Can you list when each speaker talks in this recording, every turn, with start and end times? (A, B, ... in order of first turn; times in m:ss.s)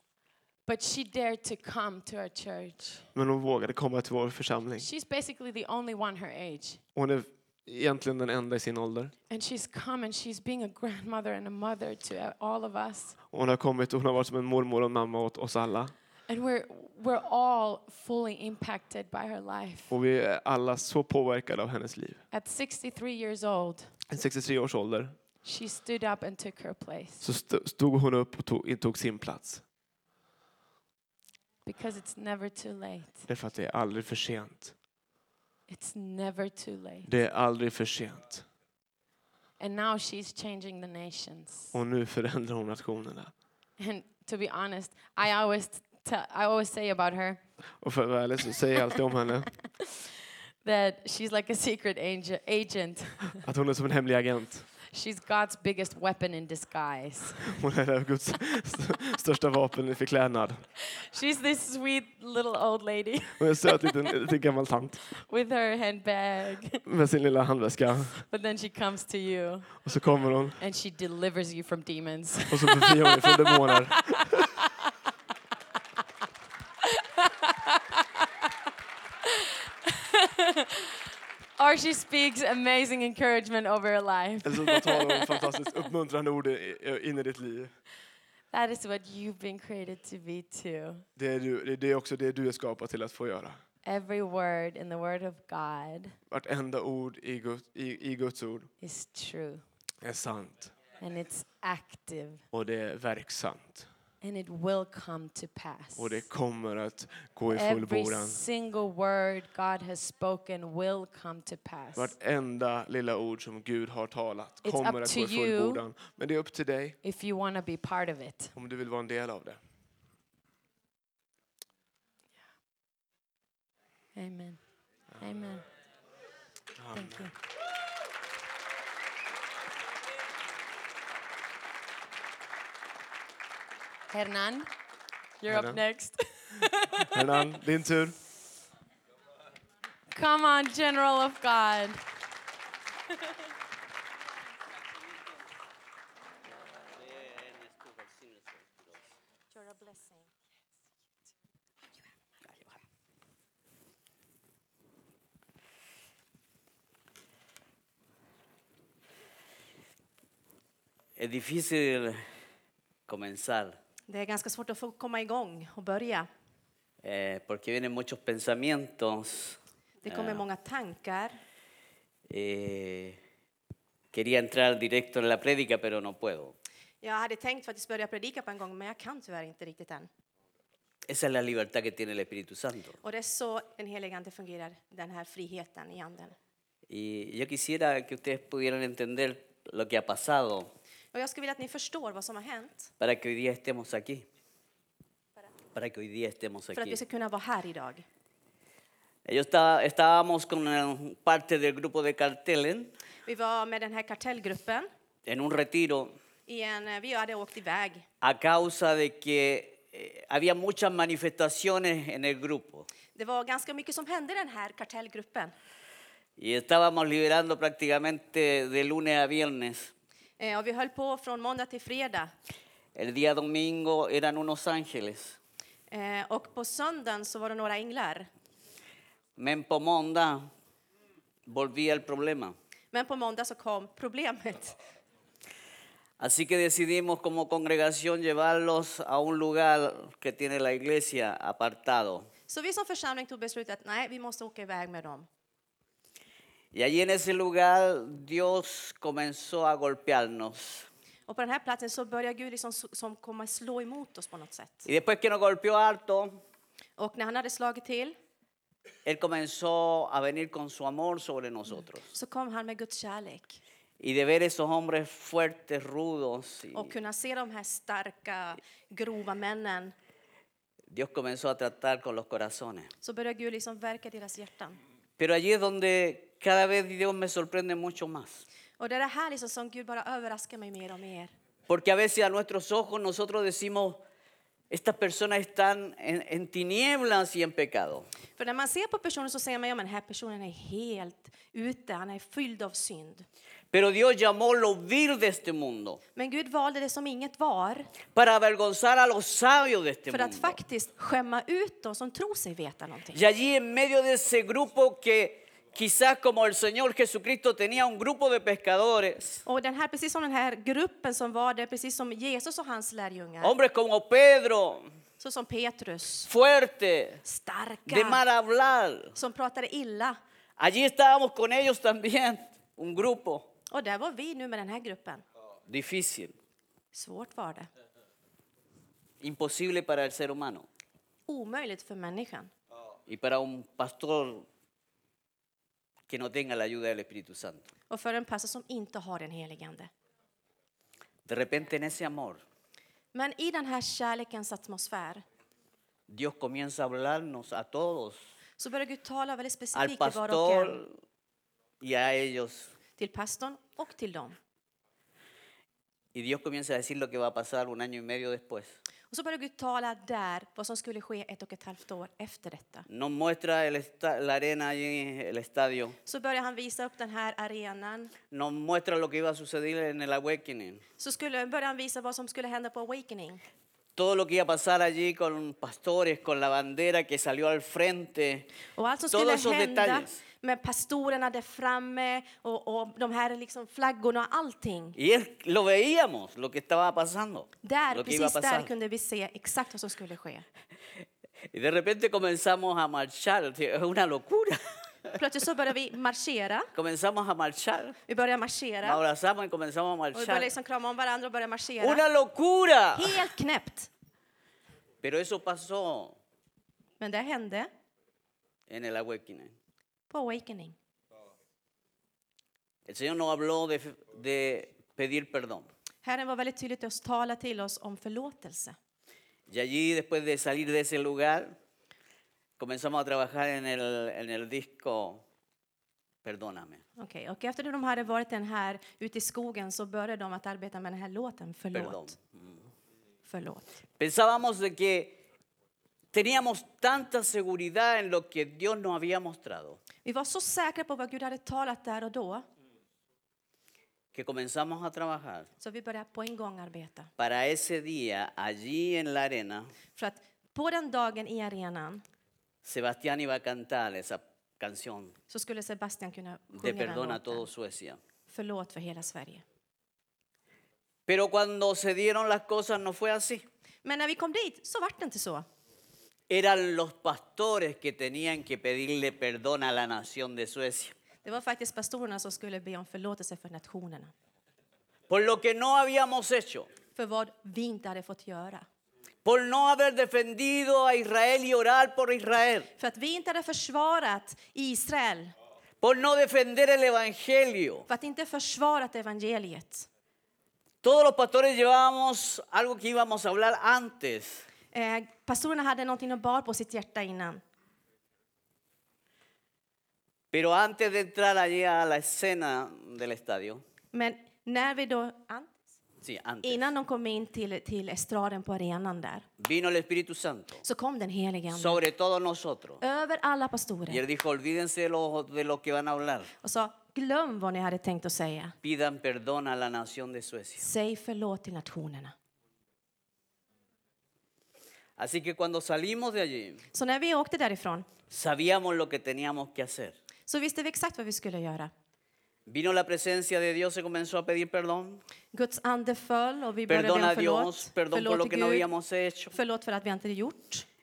0:00.7-0:03.0 A
0:03.2-0:04.9 B
0:04.8-0:06.8 A
0:07.0-0:09.1 B
0:09.3-0:13.2 A
0:13.3-0:16.0 B
0:16.3-0:19.9 A
0:19.9-0:22.2 B
0:22.3-0:23.9 A
0:24.1-0:25.2 B
0:25.4-0:27.2 A
0:27.2-0:29.6 B
0:31.6-0:33.3 A
0:33.3-0:34.8 B
0:35.7-0:37.1 A
0:37.0-0:38.5 B
0:39.6-0:41.7 A
0:41.7-0:43.3 B
0:43.8-0:47.4 A
0:47.8-0:49.6 B
0:50.6-0:53.4 A
0:53.4-0:54.7 B
0:54.9-0:57.6 A
0:57.5-1:00.7 B
1:01.0-1:04.0 A
1:03.4-1:05.1 B
1:05.2-1:06.8 A
1:06.9-1:08.3 B
1:08.3-1:09.9 A
1:09.8-1:10.6 B
1:10.6-1:14.0 A
1:12.5-1:14.5 B
1:16.8-1:18.0 A
1:19.2-1:20.8 A
1:21.6-1:25.4 A
1:24.4-1:27.8 B
1:28.5-1:31.0 A
1:31.2-1:33.6 B
1:33.8-1:36.2 A
1:36.3-1:38.7 B
1:38.8-1:39.6 A
1:40.0-1:40.8 B
1:41.0-1:42.4 A
1:42.5-1:43.9 B
1:44.2-1:46.3 A
1:46.0-1:48.4 B
1:47.5-1:52.1 A
1:52.0-1:57.0 B
1:54.6-1:55.8 A
1:57.0-1:58.5 A
1:58.6-1:59.6 B
2:04.2-2:04.6 A
2:05.2-2:05.6 A
2:06.8-2:07.3 B
2:06.9-2:07.3 A
2:14.1-2:14.7 A
2:15.4-2:17.1 A
2:15.5-2:15.8 B
2:17.1-2:18.2 B
2:20.1-2:22.0 A
2:27.0-2:28.7 C
2:29.5-2:30.3 D
2:41.2-2:42.2 C
2:43.1-2:43.8 C
2:44.1-2:46.3 D
2:47.0-2:50.4 C
2:50.0-2:51.4 D
2:52.3-2:53.2 C
2:54.1-2:56.6 C
2:57.0-3:00.1 D
3:01.1-3:03.0 C
3:03.0-3:06.4 D
3:06.9-3:10.7 C
3:11.1-3:12.9 D
3:13.0-3:14.3 C
3:15.7-3:17.0 C
3:16.7-3:18.0 D
3:19.3-3:22.9 C
3:23.2-3:24.9 D
3:25.3-3:26.2 C
3:26.5-3:28.0 D
3:28.2-3:32.9 C
3:33.2-3:35.5 D
3:36.4-3:39.9 C
3:40.4-3:42.3 D
3:43.0-3:45.4 C
3:45.9-3:48.3 D
3:49.4-3:50.5 C
3:51.5-3:52.6 C
3:52.9-3:54.8 D
3:56.2-4:02.3 C
4:02.5-4:05.3 D
4:06.7-4:10.9 C
4:11.3-4:14.9 D
4:14.8-4:16.4 C
4:17.0-4:18.2 D
4:19.0-4:22.1 C
4:22.1-4:23.6 D
4:24.0-4:26.9 C
4:26.7-4:30.0 D
4:30.9-4:32.9 C
4:33.0-4:34.8 D
4:35.2-4:38.4 C
4:38.8-4:41.3 D
4:41.7-4:44.0 C
4:44.7-4:48.1 C
4:48.4-4:53.3 D
4:53.7-4:56.0 C
4:56.2-4:58.0 D
4:58.0-5:00.6 C
5:00.1-5:03.2 D
5:03.1-5:09.4 C
5:09.5-5:13.6 D
5:13.4-5:14.9 C
5:15.2-5:16.3 D
5:16.3-5:17.2 C
5:17.2-5:18.2 D
5:17.9-5:19.1 C
5:19.2-5:20.2 D
5:20.6-5:23.5 C
5:23.7-5:25.2 D
5:25.7-5:26.4 C
5:26.9-5:27.7 D
5:29.2-5:30.7 C
5:31.3-5:32.5 D
5:33.1-5:34.5 C
5:36.1-5:37.7 C
5:37.9-5:39.9 D
5:41.3-5:42.4 C
5:43.1-5:45.2 D
5:46.1-5:48.2 C
5:48.6-5:50.8 D
5:49.7-5:51.0 C
5:51.8-5:52.7 C
5:53.0-5:54.4 D
5:56.1-5:58.8 C
5:59.1-6:02.9 D
6:02.9-6:06.0 C
6:06.0-6:08.2 D
6:08.3-6:10.8 C
6:11.0-6:13.4 D
6:14.0-6:18.5 C
6:18.8-6:25.0 D
6:19.1-6:20.2 C
6:25.0-6:28.7 C
6:27.6-6:30.5 D
6:31.5-6:35.2 C
6:35.2-6:36.7 D
6:36.8-6:38.0 C
6:38.1-6:39.0 D
6:38.8-6:40.5 C
6:40.1-6:42.0 D
6:41.8-6:43.2 C
6:43.0-6:43.9 D
6:45.0-6:46.2 C
6:47.0-6:47.7 D
6:48.7-6:49.5 C
6:50.1-6:50.8 D
6:52.9-6:55.7 C
6:56.0-6:58.8 D
6:59.5-7:01.6 C
7:02.6-7:05.2 C
7:06.2-7:06.8 C
7:07.0-7:12.1 D
7:11.7-7:12.6 C
7:13.2-7:13.7 D
7:14.0-7:15.2 C
7:16.1-7:19.8 C
7:20.0-7:22.5 D
7:24.1-7:25.5 C
7:25.6-7:27.1 D
7:27.2-7:29.7 C
7:30.0-7:32.0 D
7:32.6-7:35.2 C
7:35.3-7:37.5 D
7:36.5-7:38.0 C
7:38.3-7:39.4 D
7:41.1-7:43.4 C
7:43.8-7:45.5 D
7:46.3-7:51.0 C
7:51.2-7:54.1 D
7:55.1-7:56.7 C
7:57.0-7:58.7 D
7:59.2-8:02.7 C
8:02.8-8:05.4 D
8:05.8-8:07.9 C
8:07.9-8:09.9 D
8:10.8-8:14.4 C
8:14.7-8:17.4 D
8:20.3-8:23.6 C
8:23.9-8:25.6 D
8:26.0-8:26.7 C
8:26.4-8:29.3 D
8:29.4-8:30.6 C
8:30.6-8:31.8 D
8:31.5-8:32.8 C
8:32.8-8:34.0 D
8:33.9-8:36.3 C
8:36.4-8:38.6 D
8:38.6-8:40.6 C
8:40.6-8:42.2 D
8:45.0-8:46.6 C
8:46.7-8:47.9 D
8:48.1-8:50.0 C
8:50.3-8:51.7 D
8:52.5-8:55.0 C
8:55.3-8:58.7 D
8:56.7-8:59.4 C
8:59.3-9:00.7 D